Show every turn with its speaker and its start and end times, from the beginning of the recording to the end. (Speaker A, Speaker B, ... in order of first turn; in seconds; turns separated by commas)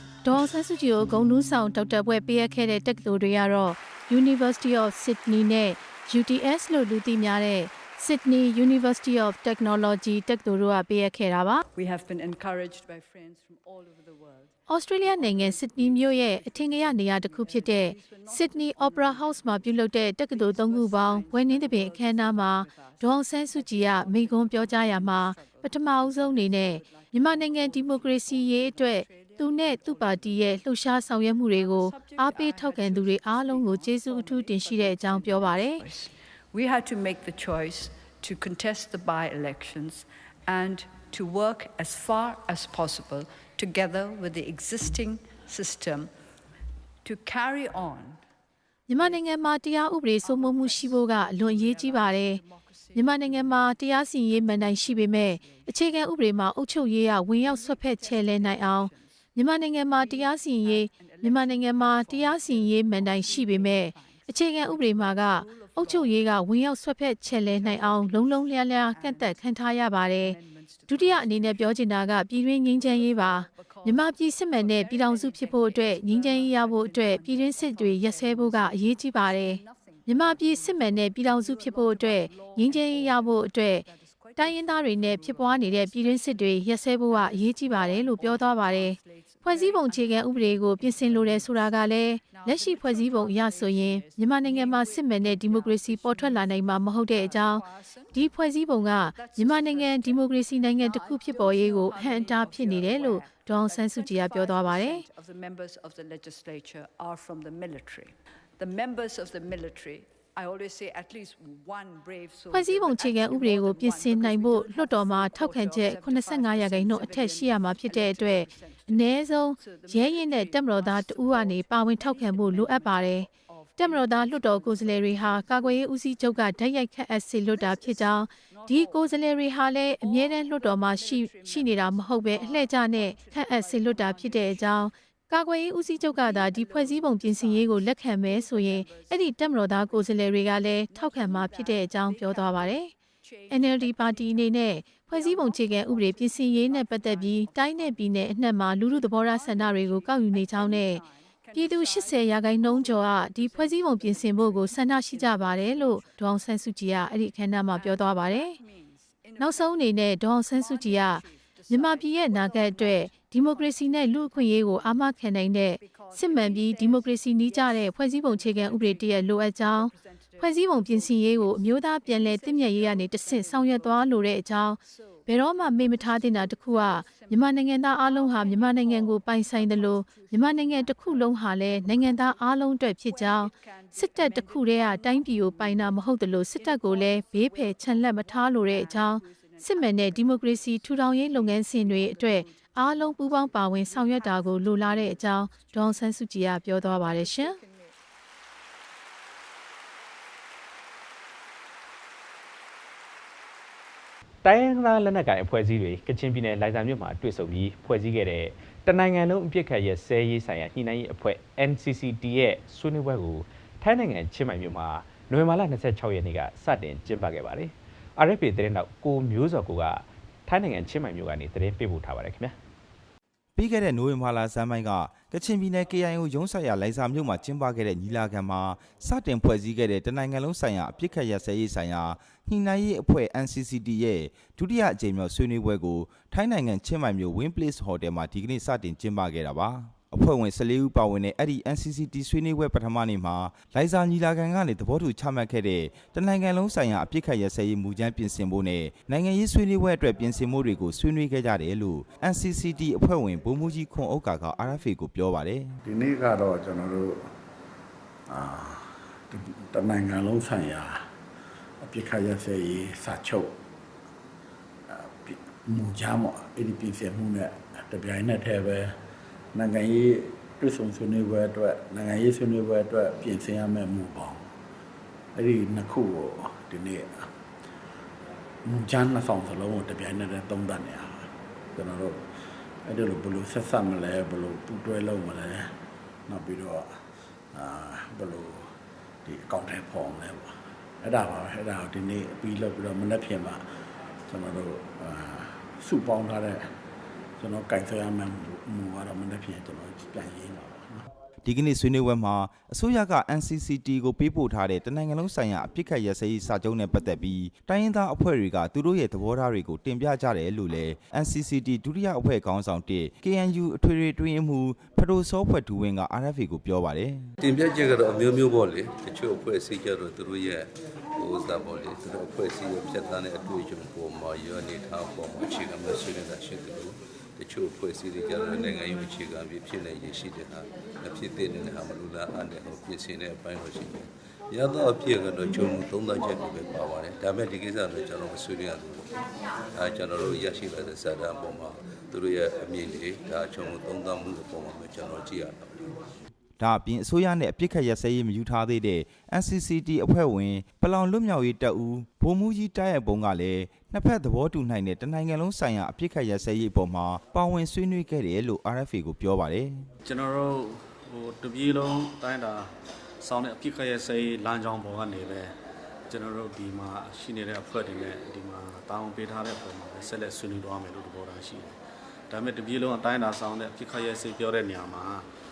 Speaker A: 0.2-11.6, Speaker B: 11.7-30.6, Speaker A: 14.7-35.8, Speaker B: 31.4-46.1, Speaker B: 47.0-48.2, Speaker A: 48.9-52.4, Speaker B: 48.9-49.3, Speaker B: 50.2-56.4, Speaker A: 52.9-70.4, Speaker B: 57.4-59.2, Speaker B: 59.9-66.3, Speaker B: 67.4-69.5, Speaker B: 70.0-72.1, Speaker A: 70.9-105.0, Speaker B: 72.8-98.2, Speaker B: 99.1-100.2, Speaker B: 100.8-125.8, Speaker A: 112.5-142.9, Speaker B: 127.5-129.2, Speaker B: 129.8-134.9, Speaker B: 135.8-156.4, Speaker A: 143.5-158.6, Speaker B: 157.6-159.9, Speaker A: 159.4-197.6, Speaker B: 160.4-165.0, Speaker B: 165.7-195.9, Speaker B: 196.7-197.9, Speaker C: 204.4-222.6, Speaker D: 223.5-255.7, Speaker E: 255.8-257.2, Speaker E: 258.3-261.0, Speaker E: 261.8-263.5, Speaker E: 264.9-268.9, Speaker E: 269.5-274.5, Speaker E: 275.3-277.3, Speaker E: 278.6-282.2, Speaker E: 282.8-285.7, Speaker E: 286.3-287.0, Speaker E: 287.5-288.7, Speaker E: 289.2-293.6, Speaker E: 294.3-296.7, Speaker E: 297.4-301.0, Speaker D: 301.4-317.3, Speaker F: 317.4-339.2, Speaker F: 339.7-346.0, Speaker D: 346.6-359.9, Speaker G: 360.0-365.5, Speaker G: 366.1-375.3